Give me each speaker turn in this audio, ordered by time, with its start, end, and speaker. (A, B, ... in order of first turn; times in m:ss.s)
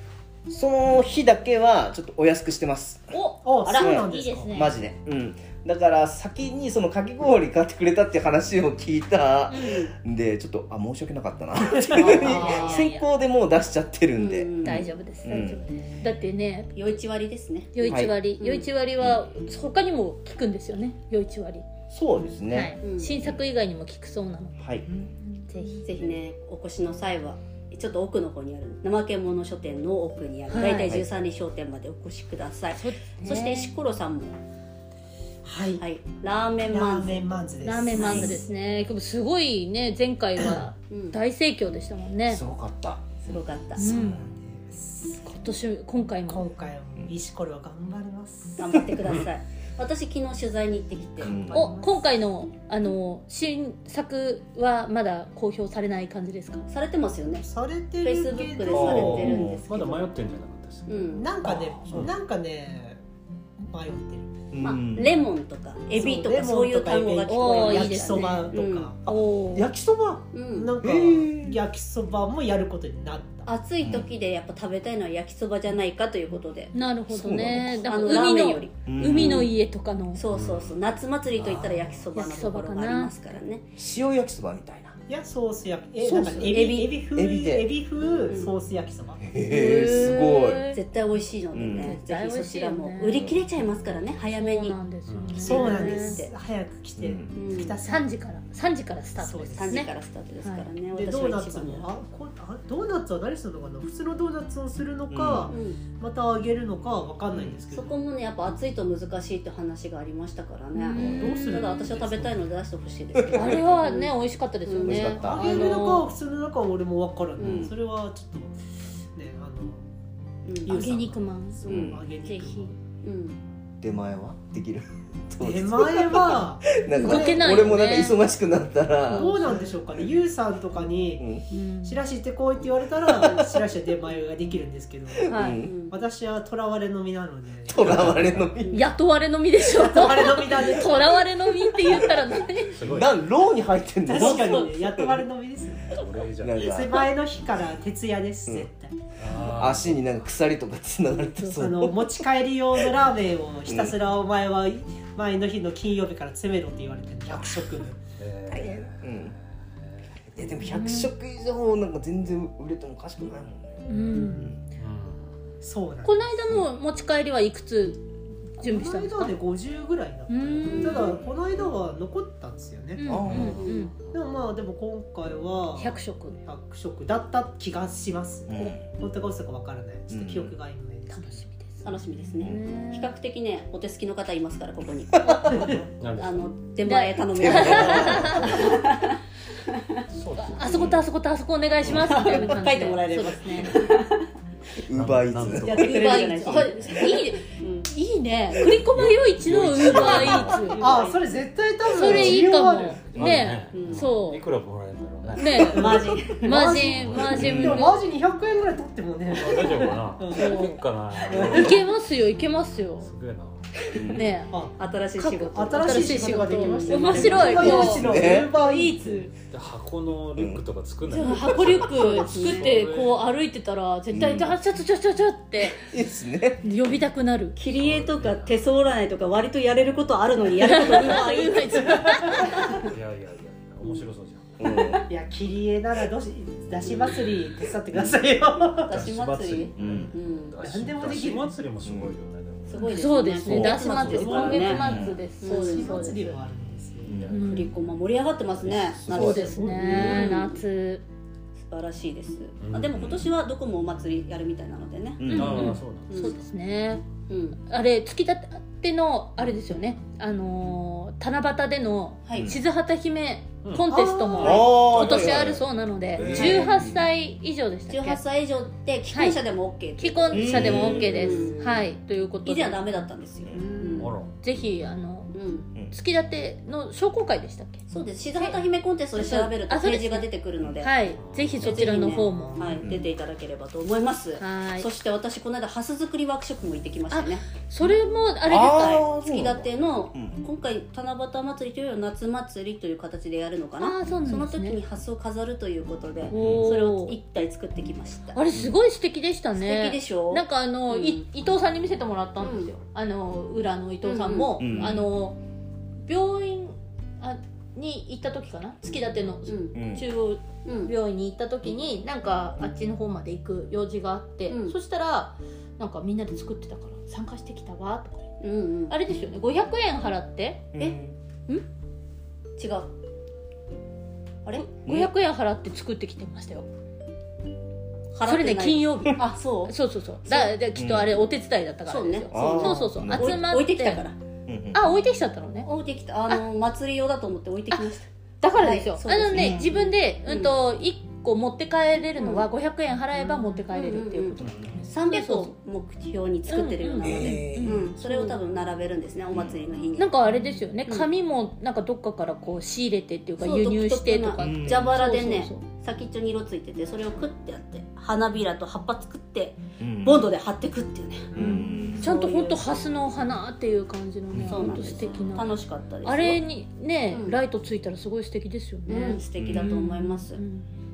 0:00.5-0:03.1 A
0:03.1-0:04.8 B
0:03.4-0:04.5 C
0:03.8-0:15.6 A
0:09.5-0:09.8 B
0:09.6-0:09.9 D
0:11.9-0:12.7 C
0:11.9-0:13.1 B
0:12.3-0:12.5 D
0:14.2-0:14.9 D
0:14.6-0:16.9 B
0:16.8-0:18.7 D
0:17.7-0:21.6 B
0:17.8-0:18.1 A
0:19.0-0:19.3 A
0:21.9-0:23.4 A
0:22.5-0:25.9 B
0:22.8-0:23.2 D
0:24.6-0:25.0 A
0:25.8-0:34.4 D
0:30.5-0:31.0 B
0:30.7-0:31.1 A
0:32.7-0:33.8 B
0:35.4-0:35.8 C
0:35.8-0:37.3 D
0:36.7-0:38.2 C
0:37.6-0:42.4 B
0:37.9-0:38.4 D
0:37.9-0:38.4 A
0:40.9-0:41.2 D
0:42.2-0:43.0 A
0:43.2-0:44.0 D
0:43.8-0:44.2 B
0:43.9-0:45.3 C
0:45.2-0:46.4 B
0:46.3-0:48.8 C
0:48.6-0:51.4 D
0:51.2-0:51.7 A
0:51.2-0:52.1 C
0:51.5-0:56.7 B
0:56.7-0:57.5 D
0:57.4-1:00.0 C
0:58.0-1:00.0 D
0:58.7-0:59.6 A
0:58.8-1:01.0 E
1:00.9-1:01.4 D
1:01.1-1:03.0 C
1:01.4-1:02.1 A
1:03.6-1:04.4 C
1:04.5-1:05.2 A
1:04.6-1:08.9 D
1:05.9-1:09.2 C
1:07.3-1:09.7 B
1:09.5-1:10.3 A
1:10.3-1:10.8 D
1:10.5-1:13.5 C
1:10.8-1:11.6 A
1:13.5-1:16.8 D
1:13.8-1:14.1 A
1:16.7-1:20.3 B
1:17.1-1:17.8 A
1:17.4-1:19.5 D
1:18.9-1:19.5 A
1:20.2-1:23.7 D
1:20.3-1:20.8 E
1:21.5-1:22.0 C
1:22.1-1:23.2 B
1:23.8-1:25.0 A
1:25.1-1:29.2 C
1:26.0-1:27.1 D
1:27.2-1:27.7 A
1:28.3-1:28.6 D
1:29.2-1:30.7 A
1:29.4-1:30.8 B
1:30.7-1:34.8 D
1:31.5-1:32.0 A
1:31.8-1:33.3 B
1:34.3-1:36.2 B
1:35.1-1:35.5 E
1:35.4-1:38.1 C
1:35.4-1:36.3 D
1:37.0-1:37.3 A
1:37.3-1:37.8 D
1:37.8-1:40.7 B
1:39.2-1:39.6 C
1:39.5-1:41.9 D
1:40.9-1:47.9 C
1:45.1-1:45.5 A
1:45.5-1:45.8 D
1:47.3-1:47.6 A
1:47.7-1:54.1 D
1:50.8-1:51.7 B
1:51.0-1:51.4 A
1:51.2-1:52.5 C
1:53.2-1:53.6 A
1:53.3-1:56.1 B
1:54.6-1:55.7 D
1:54.8-1:55.8 A
1:55.1-1:58.6 C
1:57.4-1:57.7 D
1:57.4-1:57.7 A
1:59.2-1:59.9 C
2:00.5-2:00.8 D
2:00.7-2:02.8 C
2:00.7-2:01.6 B
2:01.6-2:02.0 D
2:01.7-2:02.0 A
2:02.2-2:02.7 B
2:03.0-2:03.4 D
2:03.8-2:10.1 A
2:05.4-2:07.6 C
2:06.9-2:08.2 B
2:09.1-2:09.6 D
2:09.2-2:09.4 B
2:09.2-2:11.2 C
2:11.2-2:11.4 A
2:11.5-2:12.0 B
2:11.8-2:15.3 C
2:13.2-2:13.6 D
2:15.1-2:15.8 A
2:15.3-2:15.6 B
2:15.6-2:16.0 D
2:15.9-2:17.8 C
2:17.7-2:18.9 A
2:17.8-2:18.5 E
2:18.6-2:18.9 D
2:18.7-2:22.8 B
2:19.7-2:21.2 C
2:22.7-2:23.1 E
2:22.8-2:25.3 A
2:24.0-2:26.0 C
2:24.2-2:24.7 B
2:25.9-2:26.6 E
2:26.4-2:27.1 A
2:26.6-2:29.0 C
2:29.2-2:30.0 E
2:29.3-2:32.1 A
2:31.2-2:31.8 B
2:31.6-2:38.0 C
2:33.7-2:34.0 A
2:38.2-2:39.3 E
2:38.5-2:39.4 A
2:40.3-2:43.8 A
2:40.6-2:41.1 B
2:43.8-2:44.5 B
2:44.0-2:44.5 C
2:44.8-2:45.4 E
2:45.6-2:46.3 C
2:46.0-2:48.0 B
2:48.6-2:49.4 B
2:48.6-2:53.1 C
2:50.3-2:51.1 B
2:50.7-2:51.1 D
2:50.9-2:51.3 A
2:53.0-2:53.9 B
2:53.1-2:53.6 A
2:53.2-2:53.9 D
2:53.3-2:53.5 E
2:54.1-3:01.4 C
2:55.8-2:56.4 B
2:58.5-2:58.8 A
3:00.1-3:00.5 A
3:01.1-3:03.2 B
3:01.8-3:09.2 D
3:05.3-3:05.6 A
3:06.0-3:06.5 E
3:06.8-3:08.5 B
3:07.3-3:08.7 A
3:08.2-3:08.5 E
3:10.1-3:11.0 E
3:10.4-3:13.8 B
3:11.9-3:14.3 D
3:14.8-3:16.0 A
3:14.9-3:16.0 E
3:15.6-3:17.9 D
3:15.8-3:21.0 B
3:18.9-3:20.7 E
3:19.6-3:20.6 A
3:19.8-3:21.5 D
3:20.8-3:23.0 C
3:21.9-3:24.4 B
3:22.0-3:22.4 A
3:22.0-3:22.4 E
3:23.0-3:26.0 E
3:23.1-3:23.6 A
3:23.7-3:24.1 D
3:25.3-3:25.6 A
3:25.4-3:28.1 B
3:25.4-3:26.8 D
3:25.7-3:30.5 C
3:26.8-3:27.5 E
3:27.3-3:27.9 A
3:29.3-3:31.9 E
3:30.3-3:30.8 B
3:31.4-3:33.1 B
3:33.0-3:33.6 E
3:33.9-3:34.4 A
3:34.1-3:34.5 B
3:34.5-3:34.8 C
3:34.8-3:37.8 D
3:35.2-3:39.3 B
3:35.5-3:39.3 C
3:37.6-3:38.5 A
3:39.5-3:43.3 E
3:40.4-3:40.6 A
3:41.1-3:45.9 B
3:41.2-3:42.9 D
3:44.1-3:44.6 A
3:45.6-3:46.6 A
3:46.6-3:47.6 B
3:47.6-3:52.9 D
3:47.6-3:48.7 E
3:50.6-3:52.7 B
3:52.4-3:54.4 E
3:54.6-3:55.0 A
3:54.7-3:55.0 D
3:55.1-3:58.9 C
3:56.8-3:57.4 D
3:58.8-4:00.6 D
3:58.9-4:05.2 E
3:59.8-4:00.1 A
4:00.6-4:01.5 C
4:01.8-4:02.2 A
4:02.7-4:04.9 D
4:02.8-4:06.4 B
4:03.4-4:03.8 A
4:04.6-4:05.2 A
4:05.4-4:06.1 D
4:05.6-4:07.2 C
4:07.1-4:07.4 A
4:07.2-4:07.5 E
4:07.2-4:07.8 B
4:07.5-4:10.6 D
4:08.5-4:10.4 E
4:09.1-4:11.0 B
4:11.6-4:15.3 D
4:12.6-4:13.1 E
4:12.9-4:13.2 A
4:15.2-4:15.8 A
4:15.3-4:16.4 E
4:15.3-4:17.0 B
4:16.1-4:16.4 D
4:17.3-4:17.6 D
4:17.6-4:28.2 B
4:22.3-4:22.5 D
4:22.3-4:22.6 A
4:23.6-4:24.6 E
4:24.4-4:25.2 D
4:24.4-4:27.1 A
4:26.2-4:26.7 D
4:27.9-4:31.8 D
4:29.1-4:29.4 B
4:30.0-4:32.9 B
4:30.3-4:31.4 A
4:32.4-4:34.2 D
4:34.0-4:34.3 E
4:34.4-4:35.4 B
4:35.3-4:35.7 D
4:35.9-4:40.3 B
4:37.9-4:41.0 D
4:40.8-4:42.8 B
4:41.2-4:42.1 E
4:41.6-4:47.5 D
4:44.4-4:44.9 B
4:47.1-4:49.0 B
4:48.5-4:50.4 A
4:48.6-4:58.4 D
4:53.8-4:54.8 B
4:56.3-4:57.2 B
4:56.4-4:56.7 A
4:58.3-5:05.4 B
4:58.5-4:58.8 A
4:59.6-5:01.2 D
5:02.4-5:02.7 D
5:04.0-5:04.6 D
5:04.6-5:05.1 A
5:06.0-5:18.4 B
5:09.5-5:09.7 D
5:09.8-5:10.1 A
5:10.6-5:10.9 D
5:14.5-5:14.8 D
5:18.4-5:18.9 D
5:18.9-5:20.6 B
5:20.7-5:21.2 A
5:22.6-5:22.9 D
5:24.6-5:26.7 B
5:24.8-5:25.1 A
5:28.2-5:29.7 D
5:28.2-5:34.0 B
5:30.3-5:30.6 D
5:30.8-5:31.2 A
5:31.8-5:34.2 D
5:32.3-5:33.4 A
5:34.5-5:34.8 A
5:34.7-5:35.7 B
5:35.6-5:40.5 D
5:37.7-5:44.4 B
5:39.3-5:39.7 A
5:42.2-5:42.5 D
5:43.2-5:50.1 D
5:44.4-5:44.8 A
5:44.4-5:44.7 E
5:45.1-5:45.5 B
5:46.5-5:48.4 B
5:47.0-5:47.9 A
5:50.0-5:55.6 B
5:53.4-6:02.7 D
5:54.4-5:54.8 A
5:59.8-6:00.3 A
6:01.3-6:02.1 A
6:01.4-6:05.5 B
6:04.3-6:04.8 A
6:04.5-6:06.4 D
6:06.0-6:10.7 B
6:07.1-6:07.4 D
6:08.9-6:10.4 D
6:09.4-6:09.7 A